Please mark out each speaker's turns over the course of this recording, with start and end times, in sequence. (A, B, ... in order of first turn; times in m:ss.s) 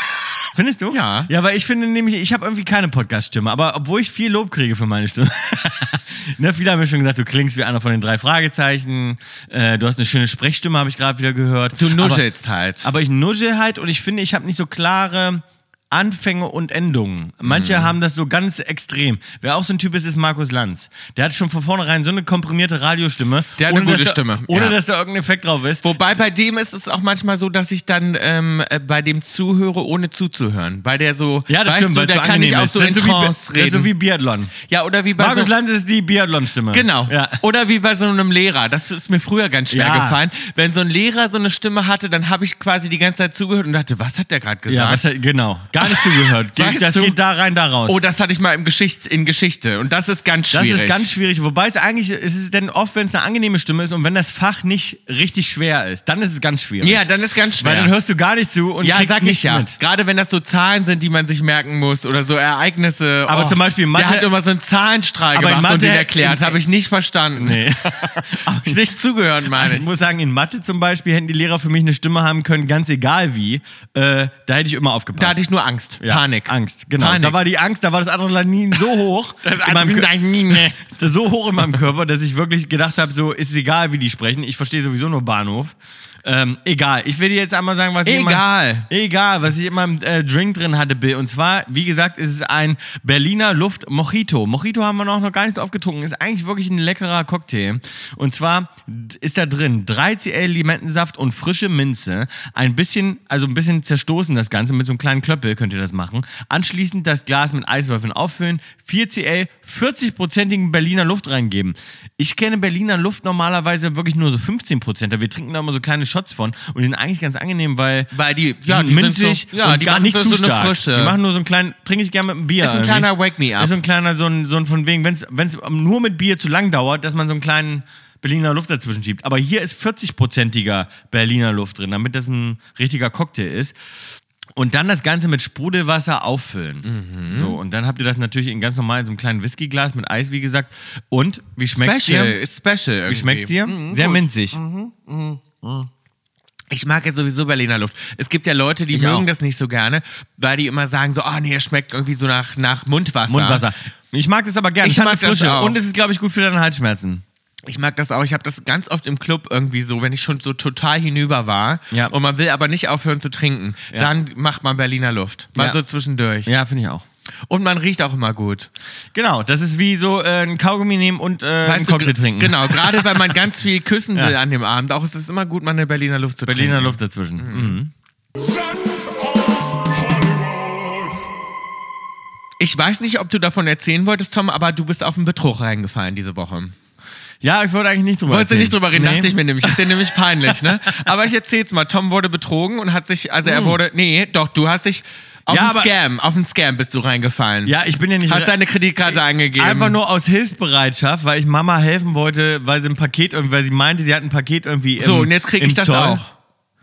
0:00.5-0:12.2 A
0:00.9-0:01.3 B
0:11.8-0:12.9 B
0:12.8-0:26.0 A
0:17.4-0:18.0 B
0:23.6-0:24.8 B
0:25.8-0:33.9 B
0:31.5-0:34.5 A
0:34.7-0:35.5 B
0:35.2-0:37.4 A
0:36.7-0:45.1 B
0:39.7-0:40.2 A
0:44.7-0:48.0 A
0:45.8-0:47.2 B
0:47.9-0:51.1 B
0:50.5-0:59.8 A
0:56.8-0:57.9 B
0:58.8-1:07.6 B
1:03.3-1:04.3 A
1:05.3-1:06.6 A
1:07.4-1:08.8 A
1:08.4-1:09.9 B
1:09.5-1:15.4 A
1:15.2-1:17.4 B
1:16.0-1:58.1 A
1:19.4-1:20.8 B
1:28.0-1:28.9 B
1:58.1-2:01.2 B
1:58.6-2:13.8 A
2:02.6-2:03.8 B
2:14.6-2:22.4 A
2:16.8-2:17.6 B
2:21.7-2:25.9 B
2:23.1-2:24.6 A
2:26.7-2:33.6 B
2:28.9-2:29.3 A
2:33.3-2:37.2 A
2:34.8-2:35.8 B
2:37.7-2:46.5 B
2:46.4-2:47.0 A
2:47.5-2:48.7 B
2:49.1-2:53.4 A
2:51.6-2:57.8 B
2:56.5-2:57.9 A
2:58.4-3:01.3 C
3:02.6-3:06.8 B
3:07.4-3:10.6 A
3:08.3-3:20.0 B
3:13.4-3:13.8 A
3:15.5-3:15.9 A
3:17.6-3:18.6 A
3:19.1-3:26.2 A
3:25.0-3:26.3 B